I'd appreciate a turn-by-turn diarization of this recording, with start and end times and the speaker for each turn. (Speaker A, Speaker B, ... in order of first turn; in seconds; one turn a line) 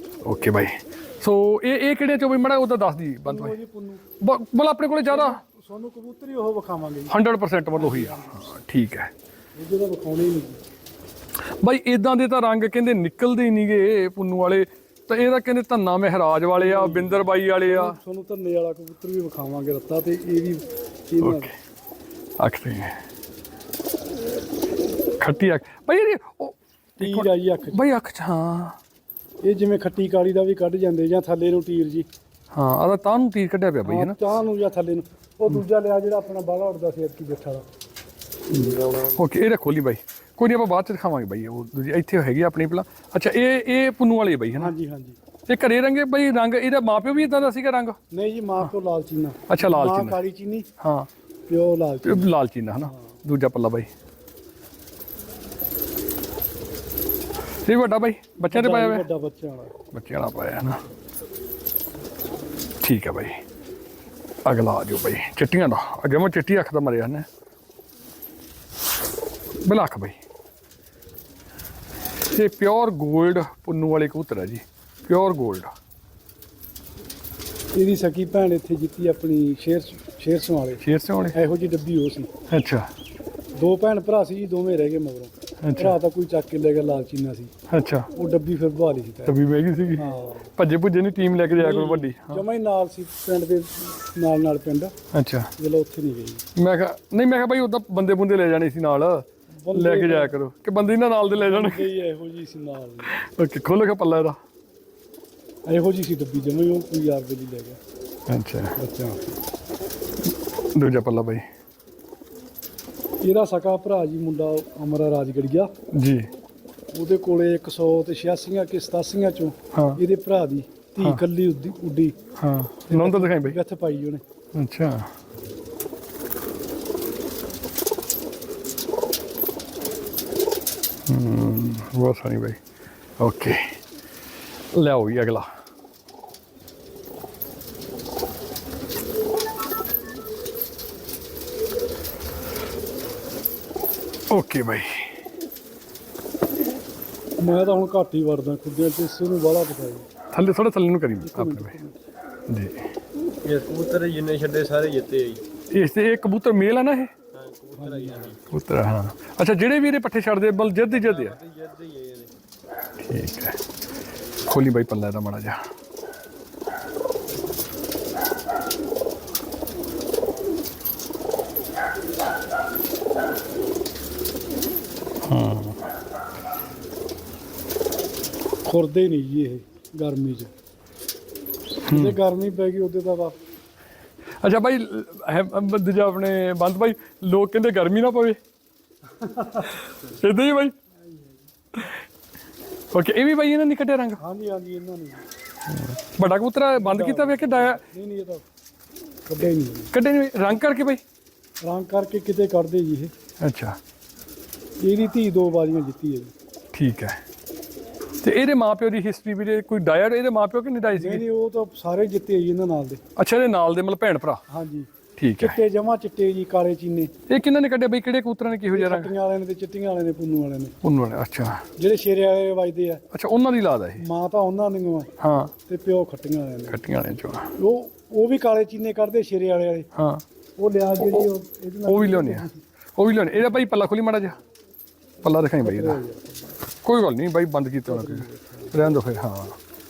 Speaker A: 0.2-3.6
Speaker B: 3.2-4.0
Speaker A: 4.2-5.4
Speaker B: 5.1-7.2
Speaker A: 7.1-9.1
Speaker B: 7.7-8.5
Speaker B: 9.6-10.6
Speaker A: 11.6-18.0
Speaker B: 16.5-21.5
Speaker A: 21.2-21.5
Speaker A: 22.4-23.0
Speaker A: 25.2-28.8
Speaker B: 27.0-27.8
Speaker B: 29.4-32.1
Speaker A: 32.5-34.3
Speaker B: 33.8-37.7
Speaker A: 38.8-44.7
Speaker B: 44.5-45.2
Speaker A: 45.5-48.0
Speaker B: 48.1-50.7
Speaker A: 49.5-50.2
Speaker A: 50.8-51.1
Speaker B: 51.5-52.3
Speaker A: 52.0-53.9
Speaker B: 52.8-53.2
Speaker A: 57.7-59.1
Speaker B: 58.4-59.8
Speaker A: 59.9-60.8
Speaker A: 62.8-63.4
Speaker A: 64.5-67.3
Speaker A: 69.6-70.2
Speaker A: 72.3-75.7
Speaker B: 77.8-82.3
Speaker A: 80.8-81.4
Speaker A: 82.5-82.9
Speaker B: 83.5-87.5
Speaker A: 85.6-86.0
Speaker A: 87.7-88.1
Speaker B: 88.1-89.4
Speaker A: 89.3-90.1
Speaker B: 90.0-90.5
Speaker A: 90.6-92.4
Speaker B: 91.6-94.9
Speaker A: 95.1-95.5
Speaker B: 95.6-96.4
Speaker A: 96.6-101.9
Speaker B: 99.6-100.4
Speaker B: 101.3-103.1
Speaker A: 103.1-104.4
Speaker B: 105.7-107.8
Speaker A: 108.3-108.8
Speaker B: 108.8-109.4
Speaker A: 110.8-111.4
Speaker B: 113.2-115.7
Speaker A: 115.9-116.3
Speaker B: 116.9-122.2
Speaker A: 119.7-120.0
Speaker A: 122.4-123.6
Speaker B: 122.9-124.2
Speaker A: 124.5-125.1
Speaker A: 131.1-132.6
Speaker A: 133.2-133.8
Speaker A: 134.7-135.5
Speaker A: 144.3-145.2
Speaker B: 147.4-150.1
Speaker A: 150.3-151.7
Speaker B: 151.2-152.0
Speaker A: 152.5-152.8
Speaker C: 153.4-155.4
Speaker A: 155.7-157.1
Speaker C: 157.3-158.5
Speaker B: 157.8-158.3
Speaker A: 158.5-161.4
Speaker C: 160.9-162.3
Speaker A: 163.0-163.6
Speaker A: 164.4-165.6
Speaker A: 175.3-175.8
Speaker B: 178.7-180.5
Speaker A: 181.9-182.2
Speaker B: 181.9-183.4
Speaker A: 184.4-188.4
Speaker B: 189.2-189.8
Speaker A: 189.8-190.7
Speaker B: 191.0-191.4
Speaker A: 192.9-194.2
Speaker B: 194.2-195.3
Speaker A: 195.7-197.8
Speaker B: 196.8-198.4
Speaker B: 199.3-199.9
Speaker A: 199.9-201.0
Speaker B: 201.6-203.1
Speaker A: 203.4-203.8
Speaker B: 204.8-206.3
Speaker A: 206.7-207.2
Speaker A: 208.2-211.2
Speaker B: 210.9-213.0
Speaker A: 213.2-214.4
Speaker B: 214.5-217.1
Speaker A: 215.2-215.6
Speaker A: 217.3-219.1
Speaker B: 218.7-220.8
Speaker A: 220.8-221.6
Speaker B: 221.8-223.0
Speaker A: 223.1-224.0
Speaker B: 224.0-225.1
Speaker A: 225.2-225.5
Speaker B: 225.7-226.8
Speaker A: 226.7-227.5
Speaker B: 227.6-229.9
Speaker A: 229.9-230.2
Speaker B: 230.6-232.6
Speaker A: 231.0-231.2
Speaker A: 231.9-232.5
Speaker A: 233.0-234.4
Speaker A: 235.2-236.0
Speaker B: 235.6-236.6
Speaker A: 236.8-239.6
Speaker B: 237.9-238.8